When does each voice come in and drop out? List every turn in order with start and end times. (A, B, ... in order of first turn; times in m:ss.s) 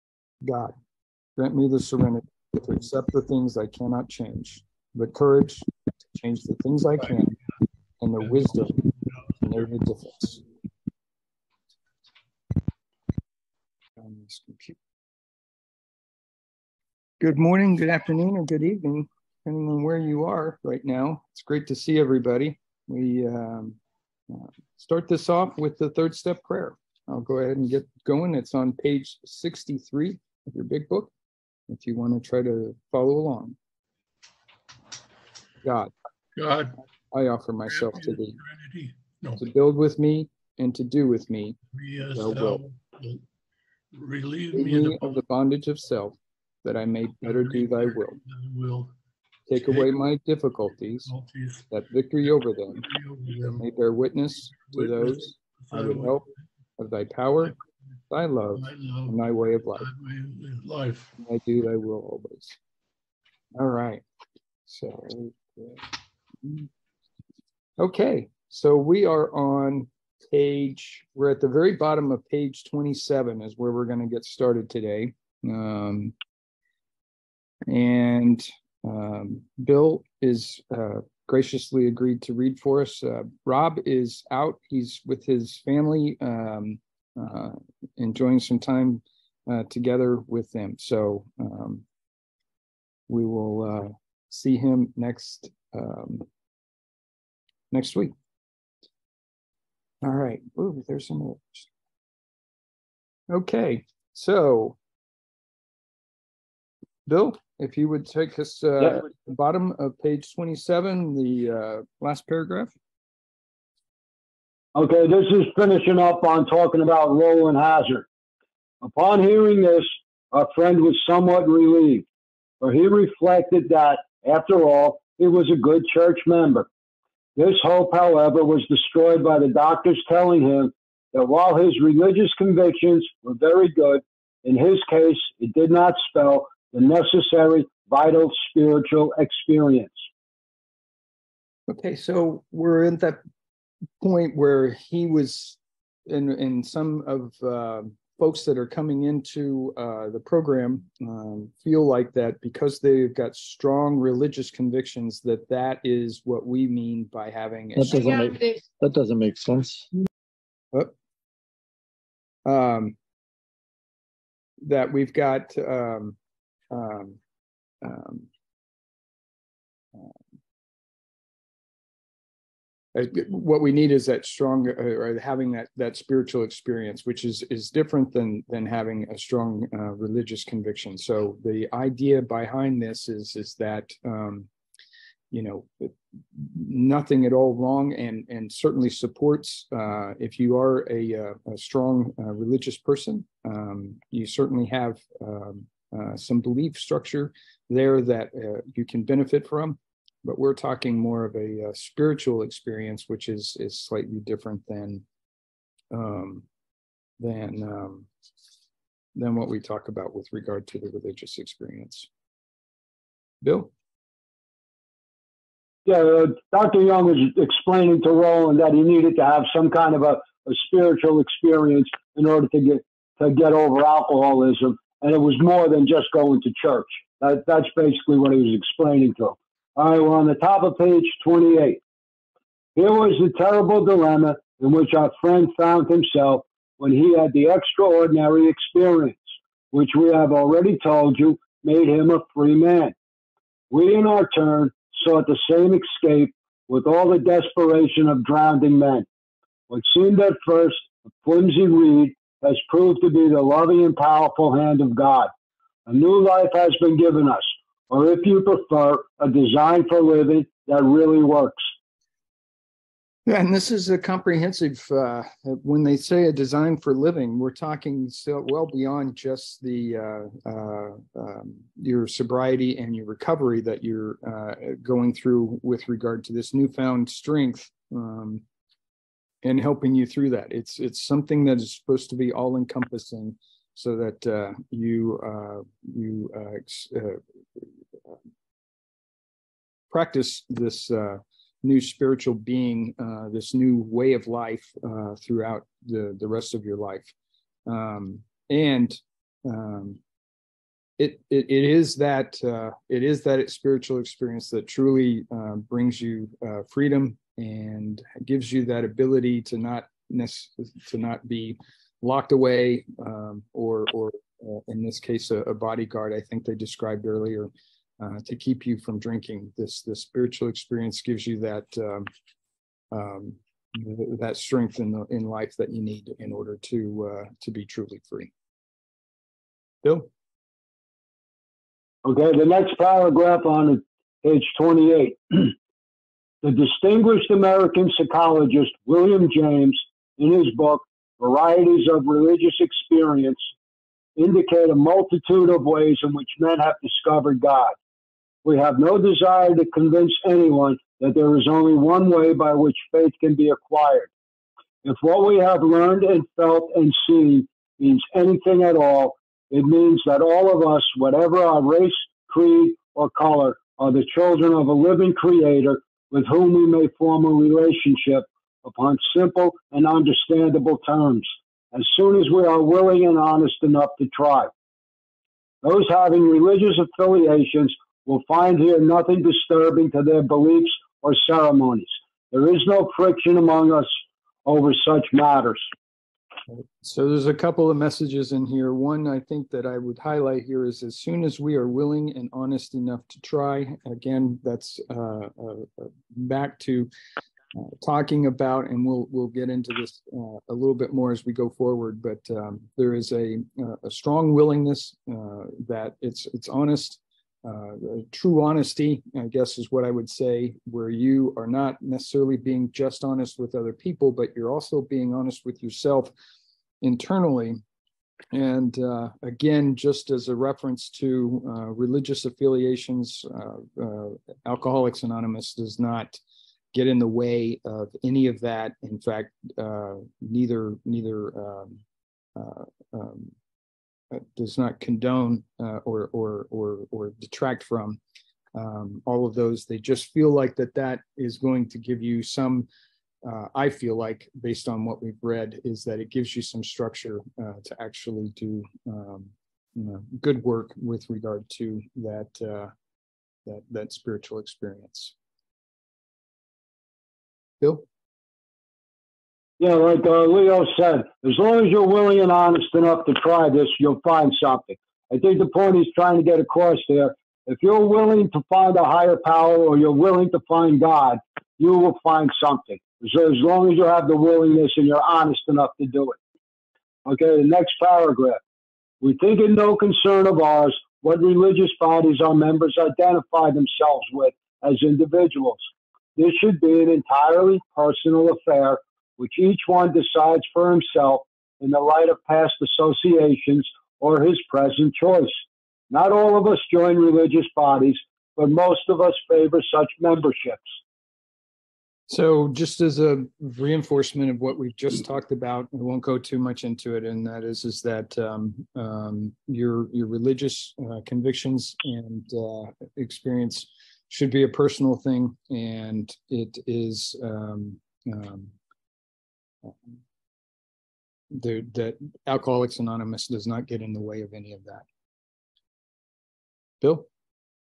0:00.4-0:00.7 A
0:01.4-0:07.4 A
0:08.0-0:10.4 A
0:14.0-0:14.8 A
0:17.2-0:23.8 A
0:24.3-0:31.1 A
0:31.7-0:33.6 A
0:35.6-0:35.9 A
0:36.4-0:36.8 B
0:37.1-0:38.4 A
0:37.7-0:39.4 B
0:39.4-0:41.6 A
0:41.7-0:43.2 B
0:42.1-0:42.6 A
0:43.9-0:45.2 B
0:44.5-0:48.2 A
0:47.2-0:48.9 B
0:49.5-0:51.1 A
0:51.0-0:51.7 B
0:51.7-0:52.8 A
0:52.7-0:53.6 B
0:53.6-0:56.2 A
0:54.5-0:56.2 B
0:56.8-0:57.6 A
0:58.1-0:59.9 A
0:58.5-0:59.2 B
0:59.7-1:01.2 B
1:01.2-1:02.6 A
1:03.5-1:04.0 A
1:04.7-1:05.8 A
1:07.8-1:16.1 A
1:17.7-1:31.8 A
1:33.1-1:36.3 A
1:37.7-1:38.1 A
1:40.0-1:41.7 A
1:43.3-1:44.8 A
1:47.1-1:52.7 A
1:54.7-1:58.0 C
1:58.8-2:02.0 C
2:02.6-2:06.7 C
2:07.4-2:20.0 C
2:21.7-2:23.2 A
2:24.0-2:38.1 A
2:37.8-2:39.9 D
2:42.4-2:43.0 A
2:44.6-2:46.2 A
2:46.7-2:47.2 A
2:47.8-2:48.3 A
2:52.9-3:04.5 A
3:05.3-3:25.0 A
3:25.9-3:26.4 A
3:27.2-3:28.1 A
3:29.1-3:32.1 A
3:33.4-3:33.7 A
3:35.8-3:51.8 C
3:52.7-4:02.9 C
4:03.7-4:09.1 C
4:09.7-4:15.3 C
4:15.9-4:21.6 C
4:23.3-4:38.4 A
4:39.4-4:47.6 A
4:49.9-4:57.1 A
4:57.6-5:00.0 A
5:01.0-5:22.1 A
5:22.9-5:28.3 A
5:29.8-5:30.1 A
5:32.0-5:35.5 C
5:36.4-5:43.4 C
5:44.2-5:47.7 C
5:48.4-5:54.1 C
5:54.8-6:14.5 C
6:15.6-6:23.9 C
6:24.4-6:25.7 C
6:26.5-6:36.9 A
6:37.5-6:56.1 A
6:56.8-6:57.6 A
6:58.3-7:06.2 A
7:06.7-7:11.8 A
7:12.4-7:13.3 A
7:14.1-7:18.0 A
7:18.5-7:22.7 A
7:23.2-7:32.7 A
7:33.4-7:35.1 A
7:37.6-7:37.8 A
7:39.6-7:56.2 C
7:57.0-7:58.4 C
7:59.0-8:05.6 C
8:06.2-8:15.4 C
8:15.9-8:20.8 C
8:22.1-8:38.5 A
8:39.6-8:40.0 A
8:41.3-8:44.8 A
8:46.8-8:47.1 A